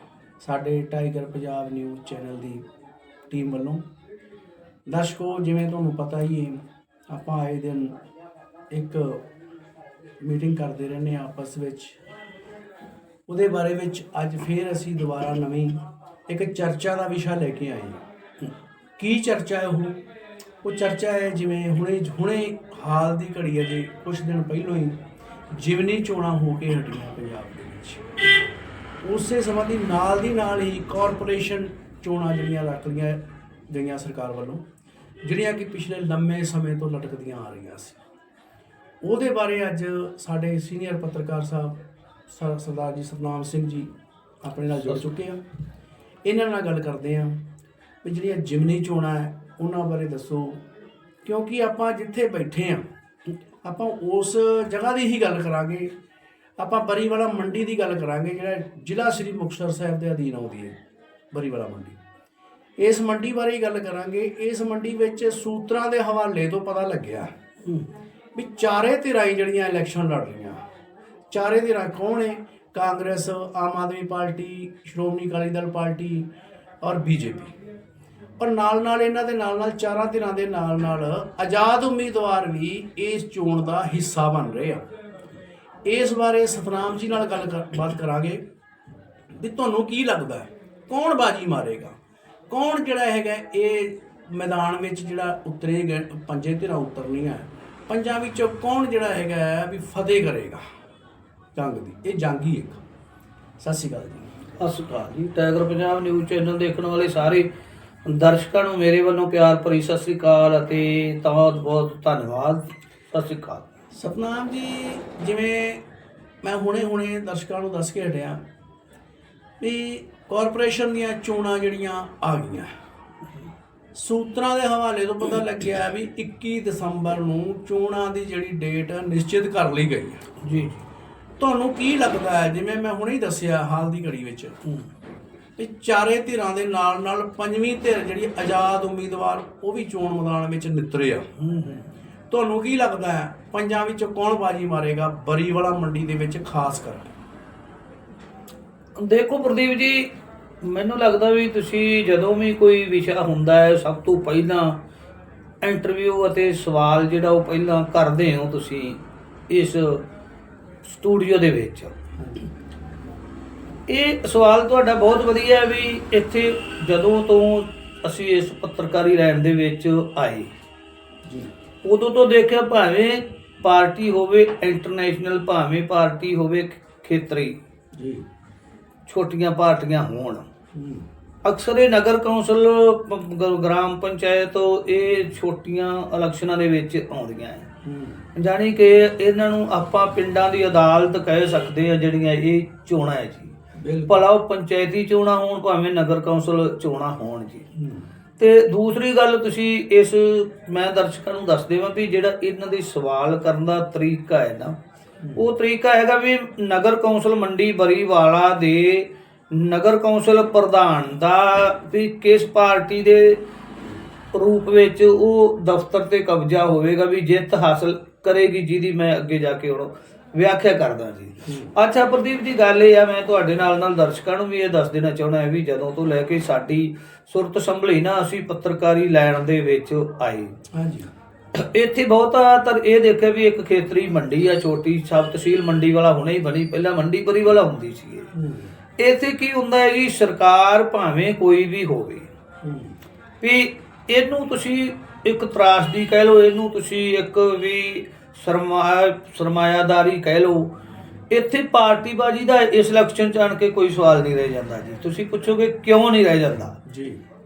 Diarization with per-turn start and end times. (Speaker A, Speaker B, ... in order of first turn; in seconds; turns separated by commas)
Speaker A: 0.4-2.6, Speaker A: 3.3-3.8, Speaker A: 4.9-8.0, Speaker A: 8.7-9.2, Speaker A: 10.2-12.0, Speaker A: 13.3-15.8, Speaker A: 16.3-18.0, Speaker A: 19.0-20.0, Speaker A: 20.6-24.9, Speaker A: 25.5-28.0, Speaker A: 29.0-34.6, Speaker A: 35.2-38.0, Speaker A: 39.0-41.8, Speaker A: 42.3-43.9, Speaker A: 44.4-45.4, Speaker B: 44.8-45.0, Speaker A: 46.2-47.4, Speaker A: 48.0-50.6, Speaker A: 51.2-52.9, Speaker A: 53.6-55.9, Speaker A: 56.6-60.7, Speaker A: 61.3-62.0, Speaker A: 62.8-67.3, Speaker A: 68.3-70.6, Speaker A: 71.3-76.3, Speaker A: 76.8-77.5, Speaker A: 78.4-84.8, Speaker A: 85.8-88.4, Speaker A: 89.3-91.9, Speaker A: 92.5-100.6, Speaker A: 101.5-102.8, Speaker A: 103.6-104.3, Speaker B: 104.6-107.5, Speaker B: 108.0-113.7, Speaker A: 113.9-115.8, Speaker A: 116.4-118.4, Speaker A: 119.6-122.7, Speaker A: 123.9-130.2, Speaker B: 130.4-130.8, Speaker A: 131.4-134.6, Speaker A: 135.6-141.3, Speaker B: 141.4-141.8, Speaker A: 142.3-147.1, Speaker B: 148.9-154.8, Speaker B: 155.6-160.1, Speaker B: 160.8-161.9, Speaker A: 162.2-162.5, Speaker B: 163.9-170.5, Speaker A: 171.2-171.5, Speaker B: 171.8-177.6, Speaker A: 177.9-178.2, Speaker B: 179.1-180.5, Speaker A: 180.7-181.1, Speaker B: 181.4-187.7, Speaker A: 187.8-188.2, Speaker B: 188.3-193.5, Speaker A: 193.8-194.3, Speaker B: 194.1-197.7, Speaker A: 197.7-198.1, Speaker B: 198.4-204.8, Speaker B: 205.3-213.4, Speaker B: 214.3-230.6, Speaker A: 221.4-221.7, Speaker A: 230.7-231.1, Speaker B: 231.5-238.3, Speaker A: 238.3-238.7, Speaker B: 239.0-242.3, Speaker A: 242.6-242.9, Speaker B: 243.4-250.7, Speaker B: 251.3-256.8, Speaker A: 256.9-257.2